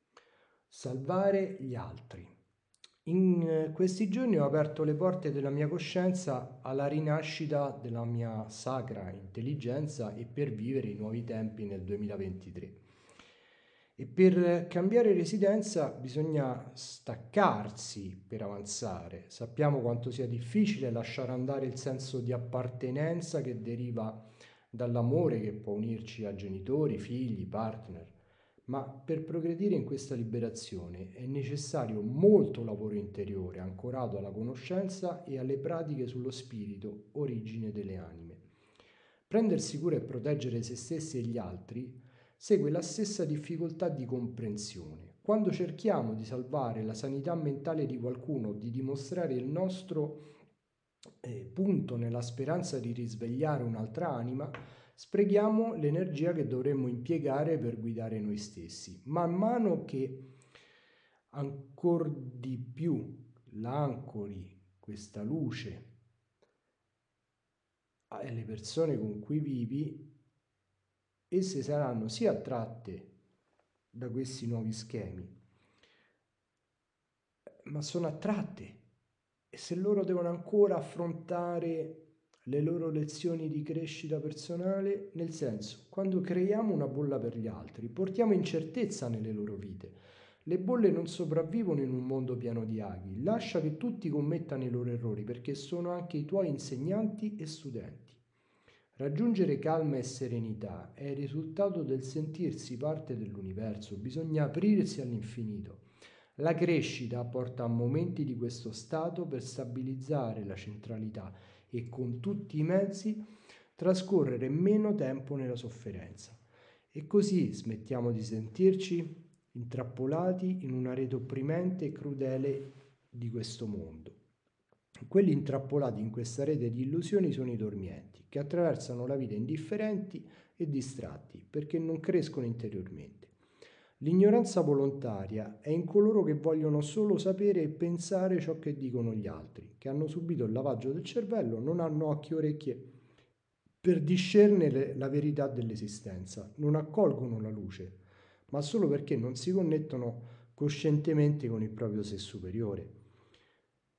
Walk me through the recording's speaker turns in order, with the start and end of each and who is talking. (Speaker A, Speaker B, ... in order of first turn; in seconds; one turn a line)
Speaker A: 0.7-2.3
Speaker A: 3.0-12.8
Speaker A: 14.0-38.4
Speaker A: 39.3-50.2
Speaker A: 51.2-60.2
Speaker A: 61.3-65.9
Speaker A: 68.1-70.0
Speaker A: 71.3-73.1
Speaker A: 73.9-75.3
Speaker A: 77.6-78.8
Speaker A: 79.5-98.2
Speaker A: 99.0-105.8
Speaker A: 106.4-113.2
Speaker A: 113.7-124.2
Speaker A: 125.0-133.3
Speaker A: 134.0-142.9
Speaker A: 143.8-152.9